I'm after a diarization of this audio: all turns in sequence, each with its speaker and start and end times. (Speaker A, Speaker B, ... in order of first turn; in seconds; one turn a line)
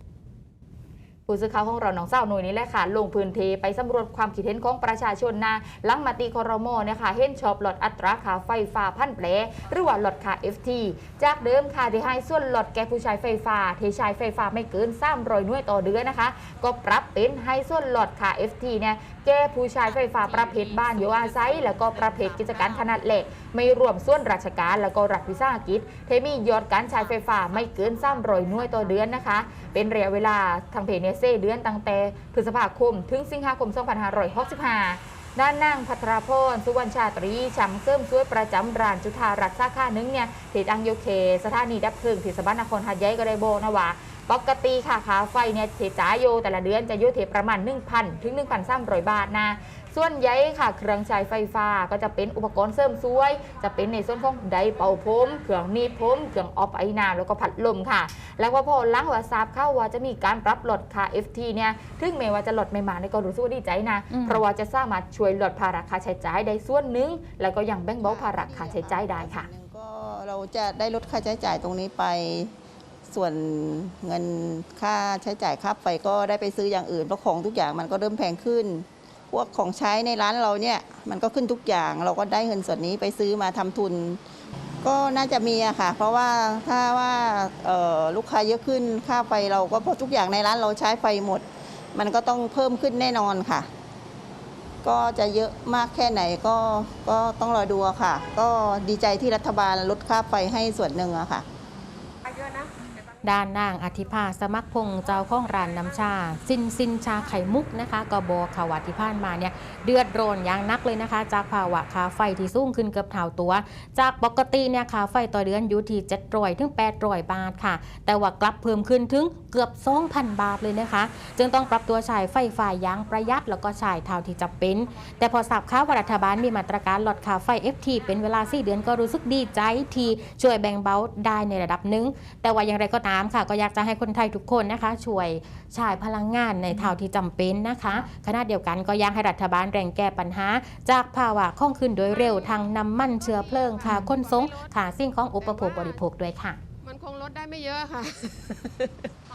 Speaker A: 1.3-69.5
Speaker B: 64.1-64.5
Speaker C: 68.0-72.5
Speaker C: 73.1-84.2
Speaker C: 84.8-93.7
Speaker C: 94.8-101.4
Speaker D: 102.3-102.9
Speaker B: 103.2-146.6
Speaker D: 142.1-144.7
Speaker D: 145.4-146.0
Speaker D: 146.8-149.1